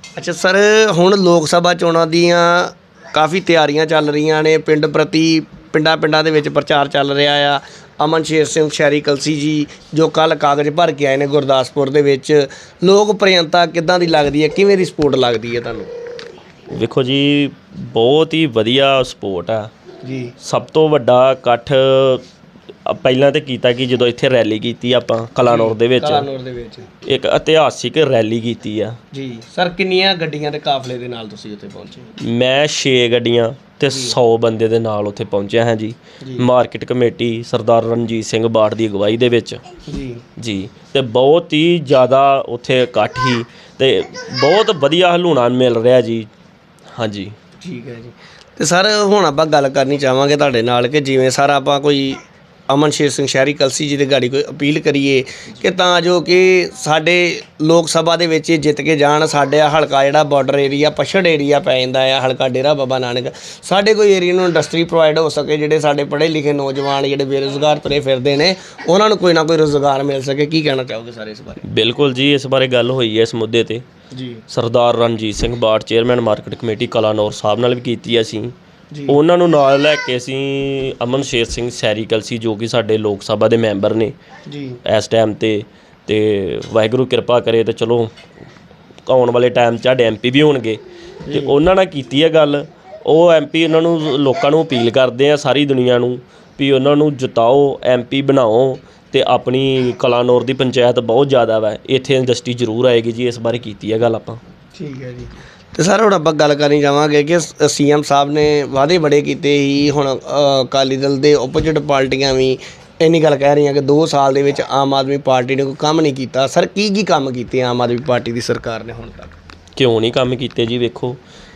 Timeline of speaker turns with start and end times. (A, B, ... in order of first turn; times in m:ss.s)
0:00.2-0:15.9 A
0:16.7-0:19.7 B
0:20.0-0:20.3 A
0:20.4-0:22.2 B
0:22.8-0:26.3 B
0:25.4-0:26.9 A
0:27.0-0:29.0 B
0:29.1-0:32.1 A
0:32.2-0:39.6 B
0:33.9-0:34.2 A
0:36.2-0:36.5 A
0:39.9-0:40.2 A
0:40.4-0:46.3 B
0:47.0-0:47.3 B
0:47.6-1:11.6 A
1:11.6-1:13.8 B
1:14.1-1:14.4 A
1:14.5-1:18.5 B
1:18.9-1:19.2 A
1:19.1-1:24.1 B
1:24.5-1:24.8 A
1:24.8-1:28.1 B
1:29.0-1:44.4 B
1:31.2-1:31.6 A
1:44.8-1:59.3 A
1:59.8-2:01.2 B